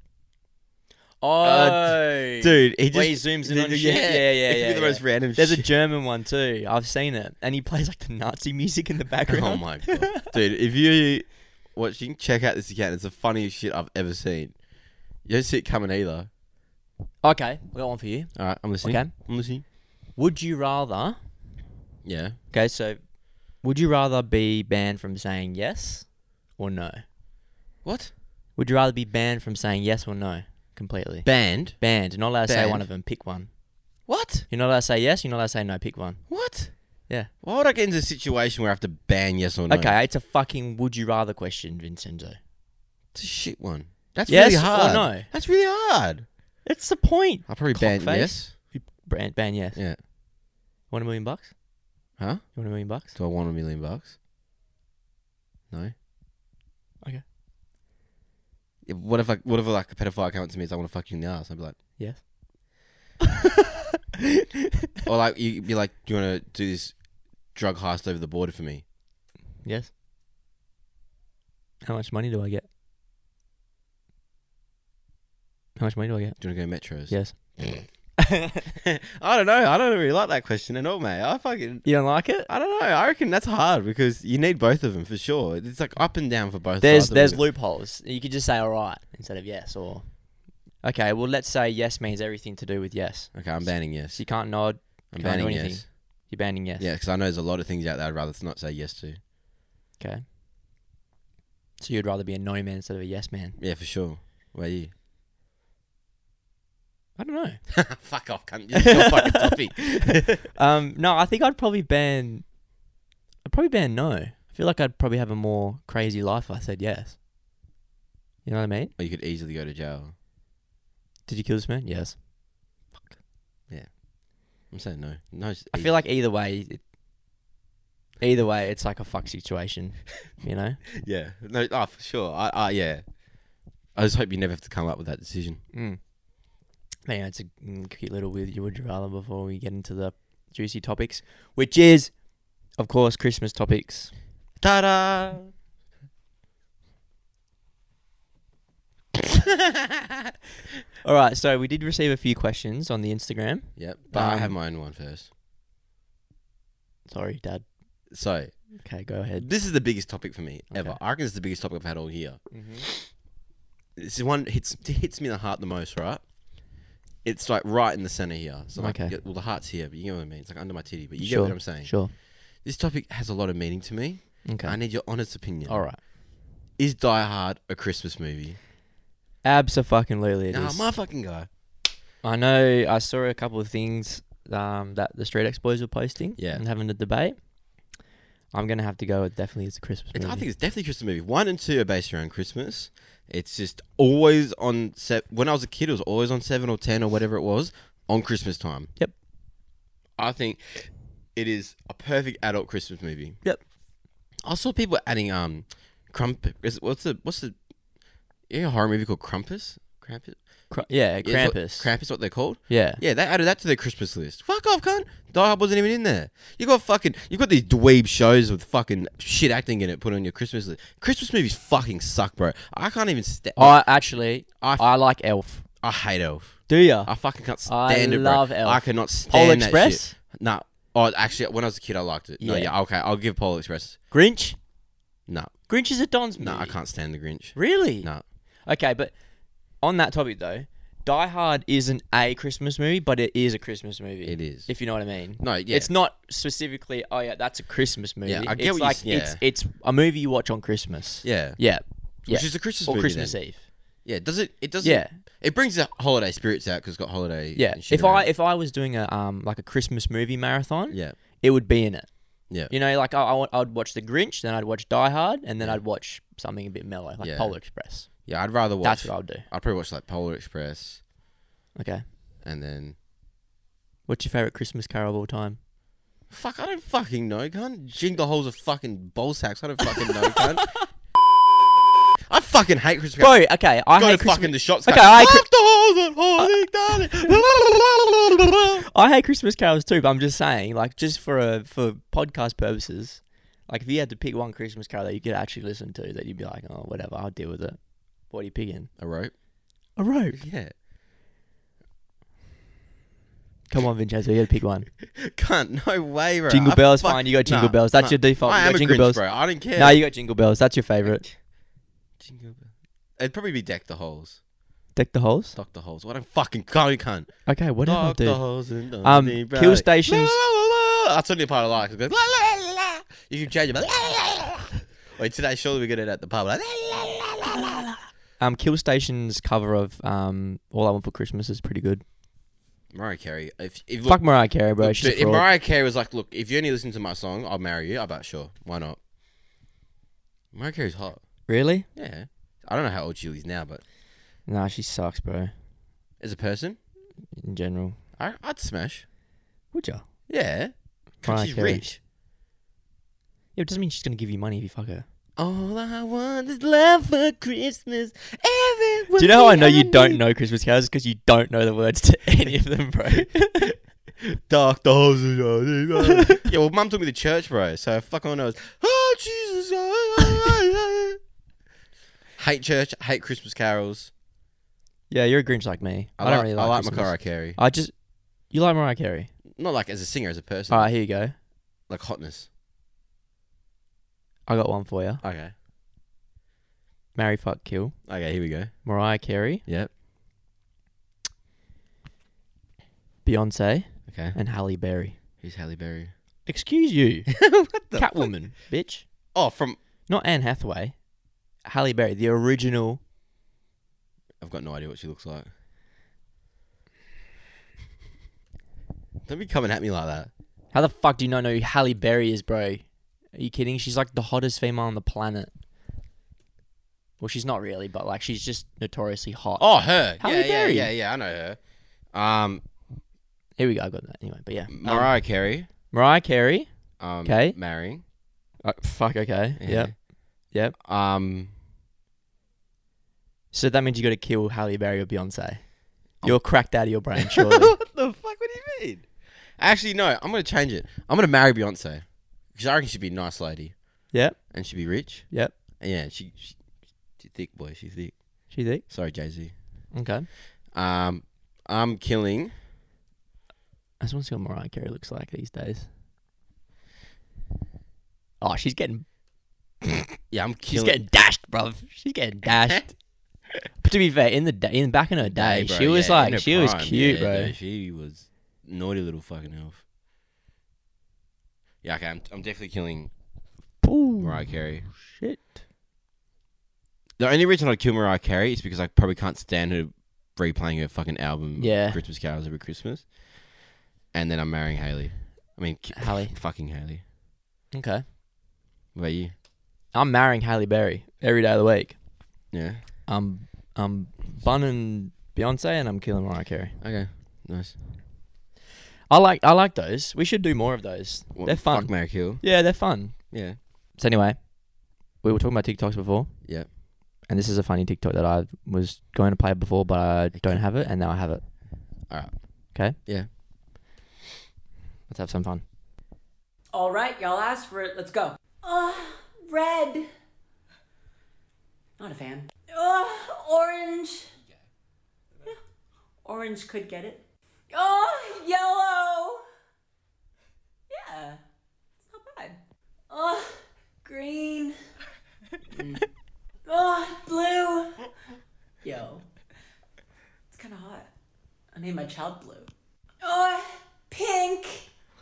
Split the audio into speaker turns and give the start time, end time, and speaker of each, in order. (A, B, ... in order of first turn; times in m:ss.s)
0:01.2-0:10.3 A
0:01.4-0:05.7 B
0:09.3-0:14.6 B
0:15.2-0:16.3 B
0:17.2-0:19.1 A
0:18.3-0:19.6 B
0:20.1-0:21.2 A
0:22.0-0:22.4 B
0:22.5-0:27.0 A
0:27.8-0:28.1 B
0:28.6-0:33.6 A
0:31.2-0:31.8 B
0:32.4-0:32.9 B
0:34.0-0:34.5 B
0:34.5-0:36.3 A
0:36.3-0:40.0 B
0:39.7-0:42.4 A
0:43.1-0:46.2 B
0:44.3-0:45.3 A
0:46.6-0:49.8 A
0:47.5-0:48.5 B
0:50.9-0:51.6 A
0:52.2-0:54.1 B
0:52.5-0:53.1 A
0:58.8-1:01.8 B
1:02.0-1:02.3 A
1:05.0-1:08.8 B
1:09.6-1:09.9 A
1:11.8-1:12.6 A
1:15.8-1:18.6 A
1:16.4-1:17.2 B
1:18.8-1:27.4 B
1:21.8-1:22.5 A
1:26.8-1:36.9 A
1:33.3-1:34.4 B
1:35.1-1:35.9 B
1:36.8-1:39.2 B
1:40.0-1:40.2 A
1:41.8-1:43.6 A
1:43.6-1:44.9 B
1:47.2-1:47.6 A
1:47.7-1:50.4 B
1:48.7-1:52.5 A
1:53.4-1:57.2 A
1:58.4-1:58.9 A
1:59.0-2:00.1 B
2:01.3-2:03.2 A
2:03.7-2:06.0 B
2:05.7-2:06.8 A
2:08.2-2:10.8 A
2:11.0-2:13.0 B
2:13.9-2:15.6 B
2:15.7-2:16.0 A
2:17.0-2:24.1 A
2:24.6-2:25.5 B
2:29.2-2:30.1 B
2:31.0-2:34.6 A
2:33.8-2:35.3 B
2:37.0-2:37.6 A
2:38.1-2:38.6 B
2:38.8-2:39.5 A
2:39.4-2:43.1 B
2:40.7-2:41.0 A
2:42.5-2:42.9 A
2:44.0-2:46.2 B
2:47.2-2:55.8 B
2:48.8-2:49.1 A
2:51.2-2:52.1 A
2:54.4-2:54.8 A
2:55.6-2:56.0 A
2:56.8-2:58.6 B
2:59.4-3:00.9 A
3:00.5-3:01.5 B
3:02.2-3:07.9 A
3:06.4-3:06.6 B
3:08.5-3:10.4 A
3:10.1-3:18.9 B
3:20.2-3:23.4 B
3:24.4-3:27.6 B
3:28.5-3:43.8 B
3:30.7-3:31.9 A
3:32.7-3:33.0 A
3:43.6-3:45.6 A
3:44.6-3:44.9 B
3:45.8-3:54.0 B
3:46.7-3:47.1 A
3:47.6-3:50.2 A
3:52.4-3:52.7 A
3:54.1-3:54.6 A
3:55.3-3:55.5 B
3:55.7-3:56.8 A
3:56.4-3:58.2 B
3:57.5-3:58.1 A
3:58.6-3:59.1 A
3:59.8-4:13.6 A
4:04.2-4:04.8 B
4:05.4-4:05.9 B
4:08.2-4:09.4 B
4:11.2-4:11.6 B
4:12.2-4:13.5 B
4:14.0-4:18.3 B
4:14.8-4:15.1 A
4:17.5-4:28.3 A
4:20.9-4:21.2 B
4:27.2-4:31.0 B
4:28.8-4:29.4 A
4:31.7-4:32.0 A
4:32.4-4:33.0 B
4:34.1-4:35.6 A
4:36.3-4:40.7 B
4:42.3-4:48.8 B
4:43.2-4:45.5 A
4:47.0-4:47.4 A
4:48.9-4:58.9 A
4:59.0-4:59.3 B
5:00.0-5:00.4 A
5:00.3-5:00.7 B
5:03.7-5:04.9 A
5:05.1-5:10.0 B
5:06.5-5:11.2 A
5:11.0-5:11.3 B
5:12.2-5:14.4 B
5:14.9-5:15.6 A
5:15.5-5:27.9 B
5:17.4-5:18.5 A
5:19.0-5:20.4 A
5:28.4-5:32.0 A
5:32.9-5:39.0 B
5:34.0-5:35.4 A
5:40.5-5:41.2 B
5:41.5-5:41.8 A
5:41.9-5:43.8 B
5:44.4-5:45.5 A
5:46.2-5:46.8 B
5:47.3-5:48.0 A
5:48.2-5:49.0 B
5:49.7-5:50.0 A
5:50.3-5:52.0 B
5:51.2-5:51.9 A
5:53.5-5:55.0 A
5:55.4-6:00.2 B
5:59.2-6:03.7 A
6:04.2-6:11.2 B
6:12.4-6:14.1 B
6:15.1-6:19.3 A
6:16.2-6:17.6 B
6:19.5-6:20.9 B
6:20.7-6:21.3 A
6:21.9-6:22.5 B
6:24.5-6:25.2 A
6:25.2-6:25.5 B
6:27.1-6:28.0 A
6:28.1-6:28.7 B
6:28.8-6:29.6 A
6:29.6-6:29.9 B
6:33.2-6:35.2 A
6:34.1-6:34.4 B
6:35.4-6:36.1 B
6:36.4-6:37.3 A
6:37.3-6:38.3 B
6:37.9-6:39.0 A
6:39.3-6:39.8 B
6:40.1-6:41.0 A
6:41.6-6:43.0 A
6:44.4-6:45.5 B
6:49.2-6:50.3 B
6:50.7-6:55.5 A
6:57.2-7:00.9 A
6:59.6-7:01.6 B
7:02.1-7:02.6 B
7:03.6-7:05.1 A
7:04.7-7:05.7 B
7:05.9-7:06.7 A
7:07.0-7:08.0 B
7:07.2-7:07.6 A
7:08.6-7:10.7 A
7:09.6-7:10.0 B
7:10.8-7:11.5 B
7:13.5-7:17.7 A
7:16.2-7:16.5 B
7:17.2-7:26.6 B
7:24.1-7:24.5 A
7:27.2-7:29.5 B
7:28.5-7:28.8 A
7:29.9-7:30.3 A
7:30.7-7:32.5 B
7:34.0-7:35.9 A
7:38.4-7:39.2 A
7:40.3-7:41.0 B
7:40.7-7:43.0 A
7:43.8-7:47.5 A
7:45.2-7:49.8 B
7:51.8-7:53.1 B
7:53.8-7:55.5 A
7:54.2-7:54.9 B
7:57.2-8:03.1 B
8:01.6-8:02.0 A
8:04.1-8:07.0 B
8:05.9-8:06.3 A
8:07.7-8:08.0 A
8:08.9-8:09.3 B
8:09.9-8:12.0 A
8:12.5-8:12.8 B
8:13.0-8:16.8 A
8:16.8-8:17.8 B
8:19.1-8:23.3 A
8:21.3-8:22.4 B
8:23.3-8:23.6 B
8:23.9-8:24.6 A
8:25.2-8:26.3 A
8:27.3-8:31.4 A
8:30.3-8:30.6 B
8:32.1-8:32.4 B
8:35.1-8:35.6 A
8:36.7-8:40.1 C
8:42.0-8:44.3 C
8:46.2-8:49.4 C
8:50.9-8:51.4 C
8:52.0-8:54.8 C
8:55.7-8:56.0 C
8:56.6-8:58.1 C
8:58.8-8:59.2 C
9:00.5-9:01.1 C
9:01.7-9:04.9 C